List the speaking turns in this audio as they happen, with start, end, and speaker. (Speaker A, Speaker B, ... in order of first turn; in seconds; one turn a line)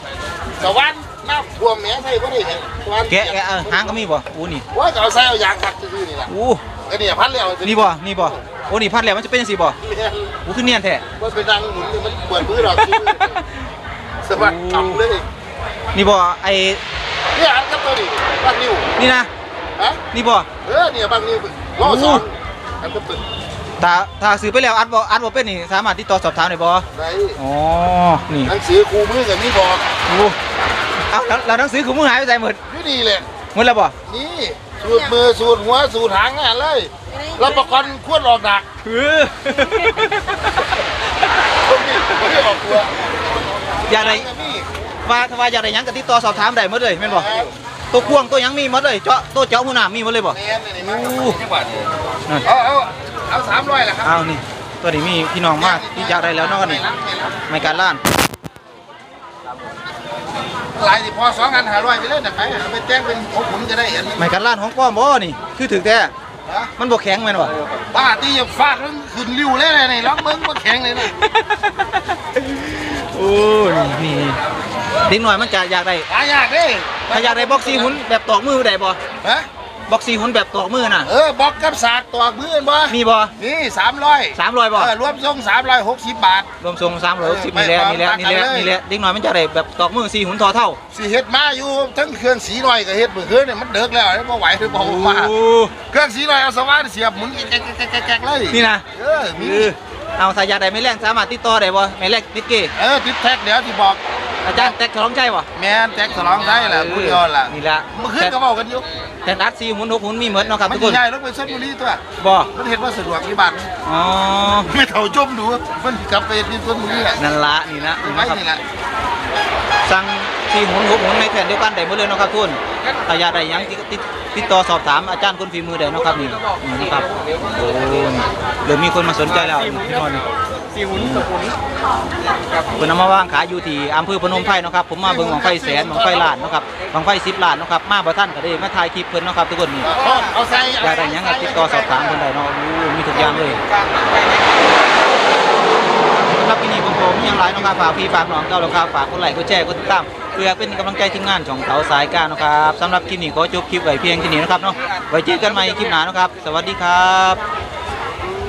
Speaker A: 0.6-3.9
Speaker B: 3.1-4.7
Speaker A: 4.7-6.3
Speaker B: 6.3-6.6
Speaker A: 6.9-8.4
Speaker B: 7.6-9.8
Speaker A: 9.8-10.3
Speaker B: 10.4-11.1
Speaker A: 11.2-13.4
Speaker B: 12.8-13.4
Speaker A: 14.2-15.3
Speaker B: 14.4-15.0
Speaker B: 15.9-16.8
Speaker A: 17.3-18.9
Speaker B: 19.0-19.3
Speaker A: 19.8-20.0
Speaker B: 20.1-20.5
Speaker A: 20.6-23.2
Speaker B: 21.8-22.2
Speaker B: 23.8-26.9
Speaker A: 26.9-27.4
Speaker B: 27.4-28.5
Speaker A: 28.5-29.9
Speaker B: 30.1-30.4
Speaker B: 31.1-32.6
Speaker A: 32.7-33.3
Speaker B: 33.5-34.0
Speaker A: 34.1-38.7
Speaker B: 38.8-40.8
Speaker A: 41.6-42.9
Speaker A: 43.9-44.7
Speaker B: 43.9-44.3
Speaker B: 45.0-47.3
Speaker A: 47.0-47.5
Speaker B: 47.9-51.4
Speaker A: 50.3-51.9
Speaker A: 52.4-54.1
Speaker B: 54.0-56.8
Speaker A: 55.6-57.4
Speaker B: 57.5-58.0
Speaker A: 60.7-64.3
Speaker B: 64.2-66.1
Speaker A: 66.5-66.7
Speaker B: 66.8-67.5
Speaker A: 67.9-71.1
Speaker B: 71.0-74.4
Speaker B: 75.1-76.1
Speaker A: 76.1-78.0
Speaker B: 77.1-79.0
Speaker A: 79.2-79.5
Speaker B: 79.9-81.1
Speaker A: 81.0-86.5
Speaker B: 82.9-83.3
Speaker B: 84.3-84.9
Speaker B: 86.6-90.8
Speaker A: 87.2-88.8
Speaker A: 90.9-95.3
Speaker B: 94.7-95.8
Speaker A: 95.9-99.7
Speaker B: 98.5-102.7
Speaker A: 102.8-104.0
Speaker B: 104.4-105.5
Speaker A: 105.5-108.9
Speaker B: 106.7-108.3
Speaker B: 109.2-111.0
Speaker A: 110.6-113.7
Speaker B: 112.2-112.5
Speaker B: 113.8-114.7
Speaker A: 114.7-117.2
Speaker B: 117.2-118.4
Speaker A: 118.0-118.6
Speaker B: 119.9-130.2
Speaker C: 127.0-127.4
Speaker C: 129.4-129.9
Speaker C: 130.7-131.6
Speaker B: 130.9-131.3
Speaker B: 132.8-139.9
Speaker A: 135.0-136.5
Speaker A: 139.8-142.0
Speaker B: 140.8-143.6
Speaker C: 143.5-144.7
Speaker B: 146.3-157.4